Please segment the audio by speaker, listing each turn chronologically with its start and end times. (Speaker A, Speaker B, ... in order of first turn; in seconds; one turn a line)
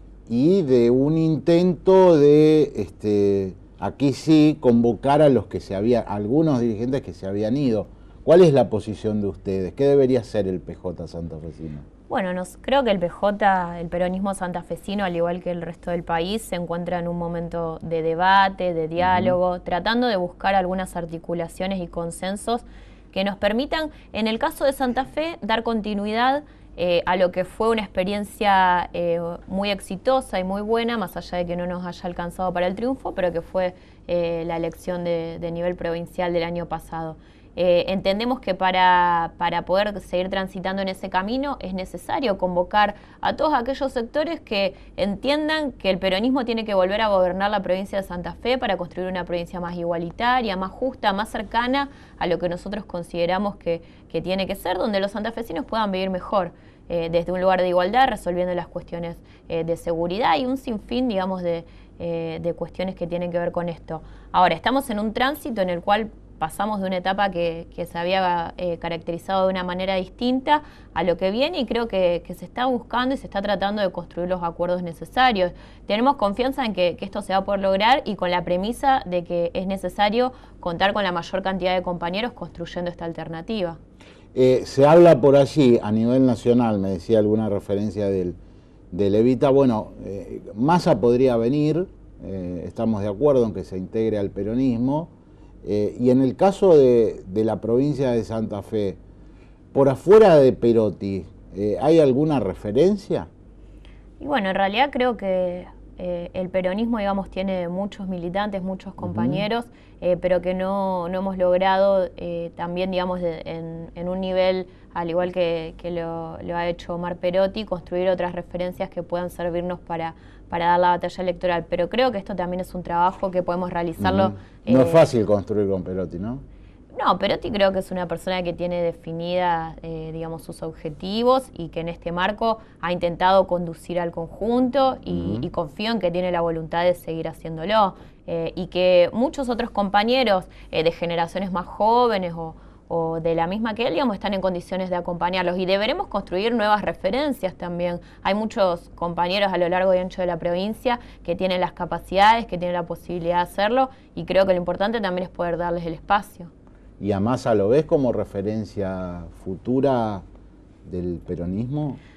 Speaker A: 0.3-11.8
Speaker B: 12.1-83.8
Speaker A: 19.0-19.4
Speaker A: 84.3-88.4
Speaker A: 88.9-95.1
Speaker A: 95.6-99.0
Speaker A: 99.7-103.3
Speaker B: 104.2-125.1
Speaker A: 109.0-109.4
Speaker A: 124.0-126.4
Speaker B: 126.9-156.5
Speaker A: 135.1-135.5
Speaker A: 157.0-160.2
Speaker A: 160.8-162.0